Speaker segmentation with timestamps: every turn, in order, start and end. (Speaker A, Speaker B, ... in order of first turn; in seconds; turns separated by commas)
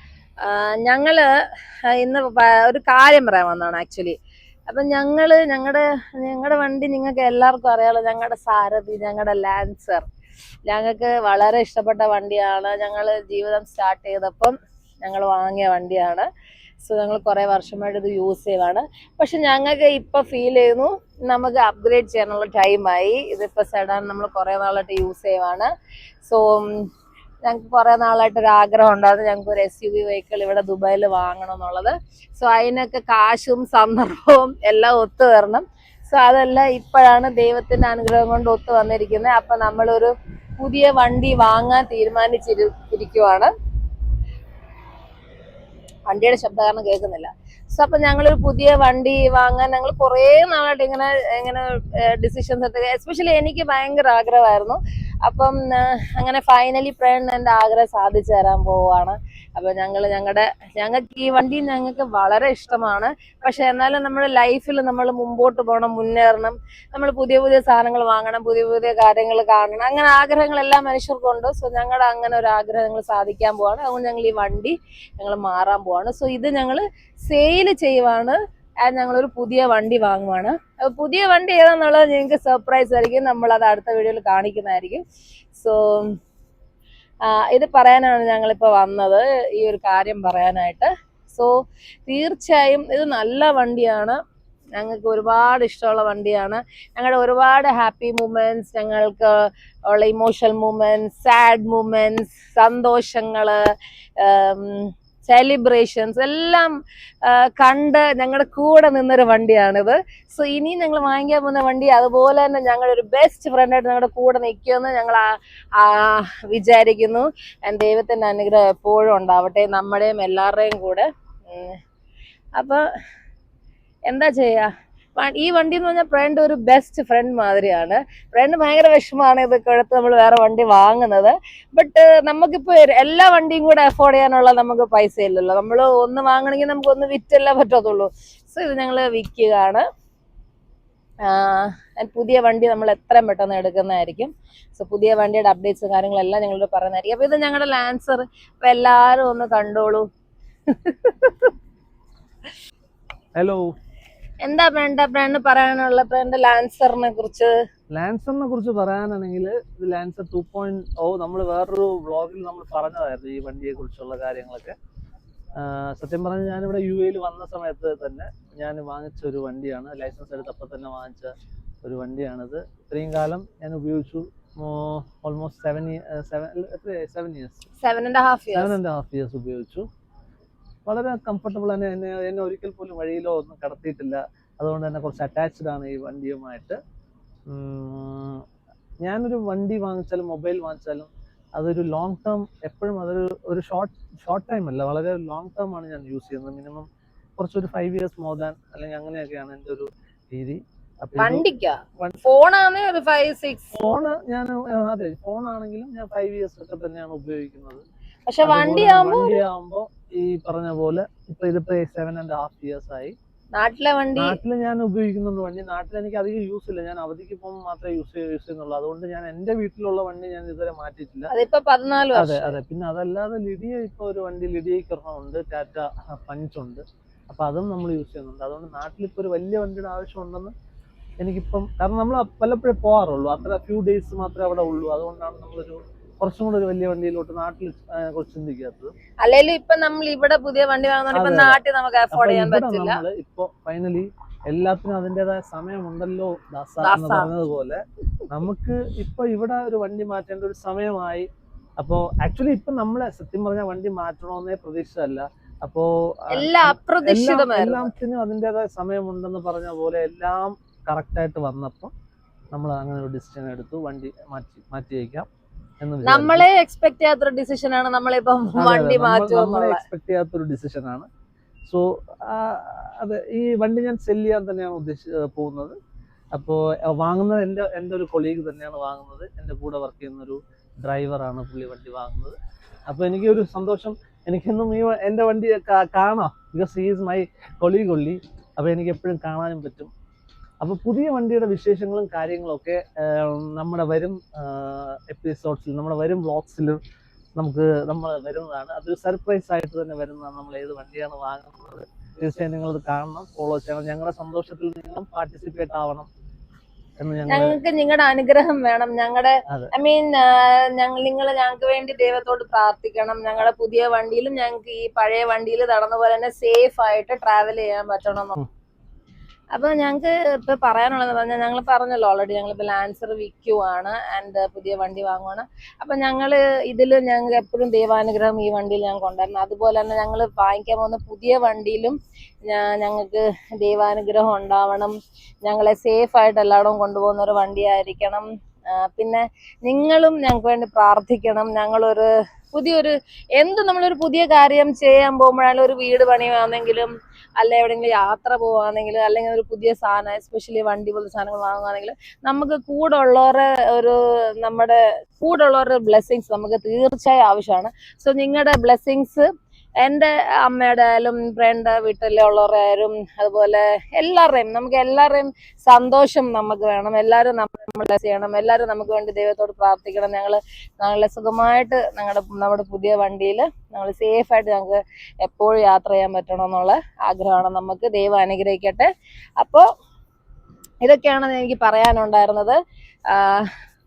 Speaker A: 0.4-1.3, Speaker A: 1.9-4.2, Speaker A: 4.7-10.0, Speaker A: 10.7-16.3, Speaker A: 16.8-25.7, Speaker A: 26.2-26.9, Speaker A: 27.4-43.5, Speaker A: 46.1-85.0, Speaker A: 85.5-86.2, Speaker A: 87.2-91.5, Speaker A: 92.0-94.2, Speaker A: 94.8-103.6, Speaker A: 104.2-106.7, Speaker A: 107.2-121.8, Speaker A: 122.5-122.8, Speaker A: 124.1-139.8, Speaker A: 141.2-150.1, Speaker A: 150.7-151.5, Speaker B: 153.3-153.7, Speaker A: 154.4-157.5, Speaker B: 157.9-164.8, Speaker B: 165.6-177.6, Speaker A: 177.8-178.8, Speaker B: 178.5-179.8, Speaker B: 180.8-186.8, Speaker B: 187.5-188.4, Speaker B: 189.0-196.8, Speaker B: 197.4-201.4, Speaker A: 201.2-203.8, Speaker B: 203.7-207.8, Speaker A: 208.3-209.4, Speaker B: 208.4-213.1, Speaker A: 213.5-214.4, Speaker B: 214.2-221.3, Speaker A: 221.3-222.6, Speaker B: 222.1-230.5, Speaker B: 231.2-238.9, Speaker A: 239.2-243.0, Speaker B: 241.1-241.6, Speaker B: 242.1-251.3, Speaker A: 246.8-247.3, Speaker B: 251.8-261.9, Speaker A: 256.3-257.9, Speaker B: 262.5-265.3, Speaker B: 265.8-266.4, Speaker A: 266.0-269.8, Speaker B: 268.6-271.1, Speaker B: 271.7-275.8, Speaker B: 276.3-282.4, Speaker B: 282.9-289.9, Speaker B: 290.6-296.8, Speaker B: 297.4-306.1, Speaker B: 307.0-307.6, Speaker A: 307.3-318.4, Speaker A: 319.5-359.3, Speaker A: 359.8-379.7, Speaker A: 380.8-382.6, Speaker A: 383.1-383.5